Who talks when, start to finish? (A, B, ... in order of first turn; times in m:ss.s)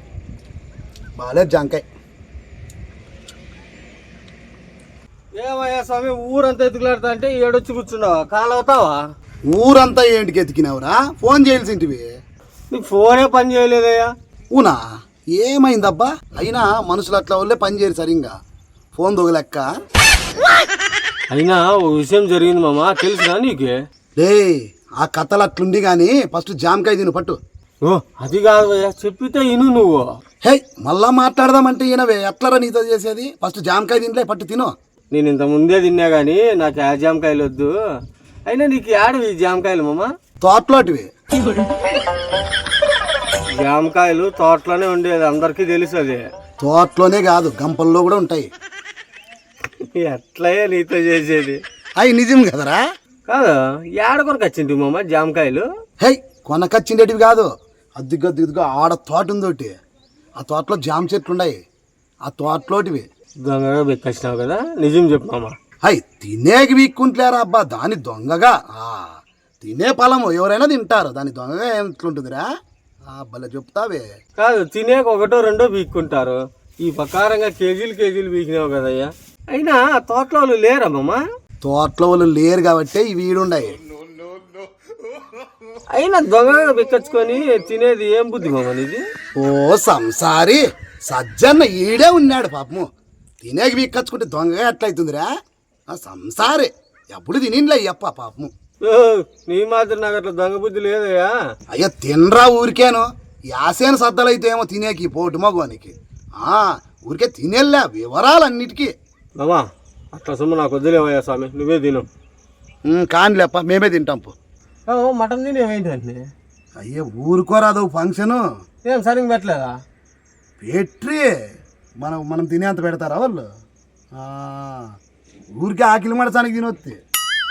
0:01.2-0:01.8 A
0:05.4-0:09.0 B
0:09.5-0:12.1 A
0:12.7-0:14.1 B
0:14.5-0:14.8 A
0:15.3-0:18.3 A
0:18.9-0:19.6 A
0:21.3-0:23.8 B
0:24.2-0:27.4 A
0:27.8-0:30.1 B
0:30.4-0:34.7 A
0:35.1-0:37.7 B
0:38.5-0:40.1 B
0:40.4-0:41.1 A
0:43.4-0:46.2 B
0:46.6-0:48.5 A
0:49.8-0:51.6 B
0:52.0-0:52.8 A
0:53.3-0:55.7 B
0:56.0-0:59.7 A
1:00.4-1:01.6 A
1:02.2-1:03.1 A
1:03.4-1:05.5 B
1:05.8-1:12.5 A
1:13.1-1:14.0 A
1:14.4-1:21.2 B
1:21.6-1:23.8 A
1:25.9-1:29.0 B
1:29.4-1:32.9 A
1:33.4-1:35.3 A
1:35.9-1:38.5 A
1:38.8-1:41.4 B
1:41.7-1:48.9 A
1:49.4-1:52.1 B
1:52.9-1:54.3 A
1:54.9-1:56.2 B
1:56.8-1:58.4 A
1:58.8-1:59.7 B
2:00.6-2:01.3 A
2:02.0-2:03.4 A
2:04.1-2:04.9 A
2:05.6-2:07.0 A